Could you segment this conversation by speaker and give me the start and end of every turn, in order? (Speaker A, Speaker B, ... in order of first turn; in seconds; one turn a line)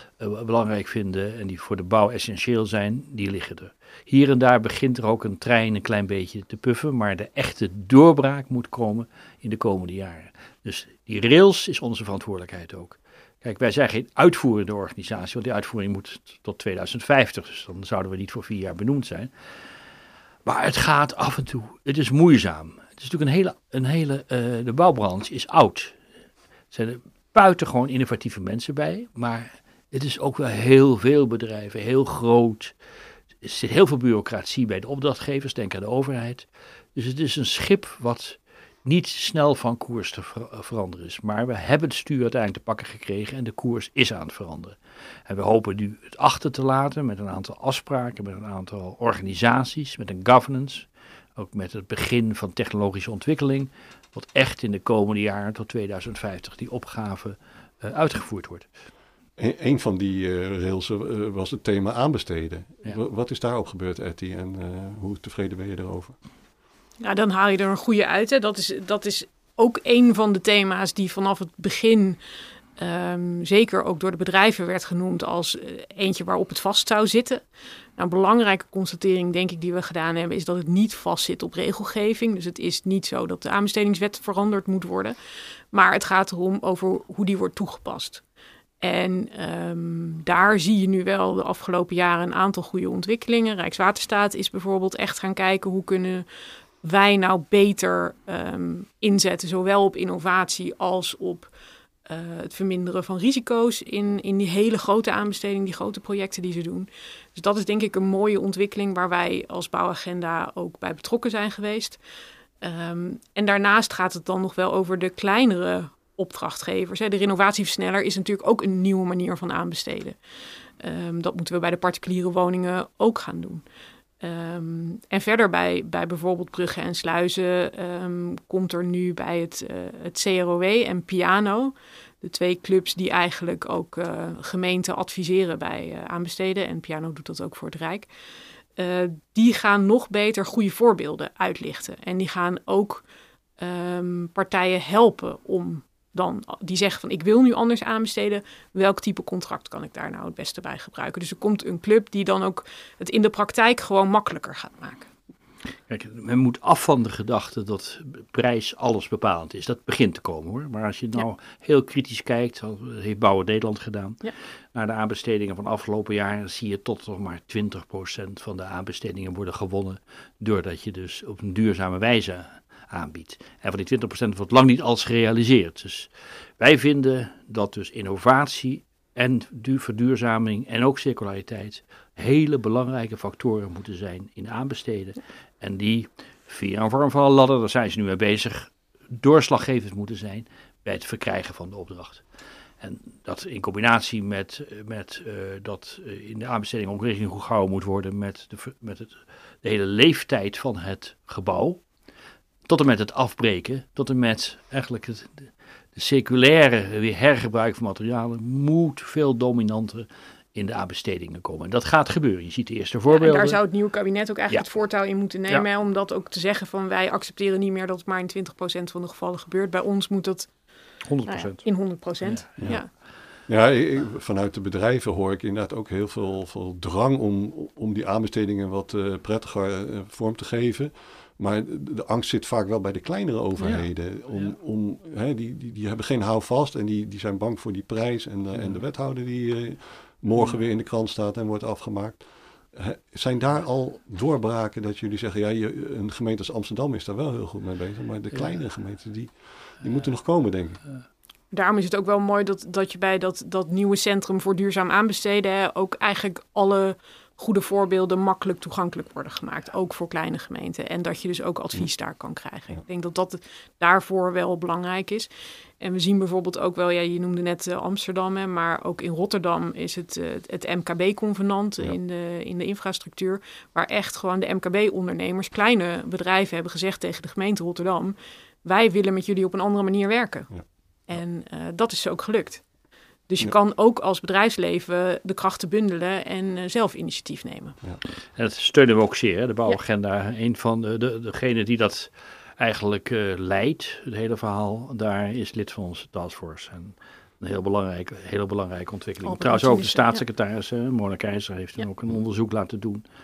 Speaker A: 0.2-19.3
Speaker A: 20.4-26.0
Speaker A: 26.7-32.8
Speaker A: 33.4-58.7
Speaker B: 59.4-66.2
Speaker C: 67.0-72.2
Speaker C: 72.8-77.4
Speaker C: 78.0-85.2
Speaker C: 85.7-88.2
Speaker C: 88.8-96.2
Speaker C: 96.8-101.5
Speaker C: 102.1-112.0
Speaker C: 112.6-120.2
Speaker C: 120.8-123.6
Speaker C: 124.2-138.1
Speaker C: 138.8-143.1
Speaker C: 143.6-155.1
Speaker A: 155.9-192.2
Speaker A: 192.8-201.8
Speaker A: 202.7-213.7
Speaker C: 213.1-220.5
Speaker A: 214.5-214.8
Speaker A: 221.0-222.9
Speaker C: 221.2-222.9
Speaker B: 222.6-250.8
Speaker A: 233.6-234.5
Speaker A: 238.5-238.8
Speaker A: 248.3-248.6
Speaker C: 251.5-282.7
Speaker C: 283.3-287.8
Speaker A: 288.3-303.0
Speaker C: 299.2-300.2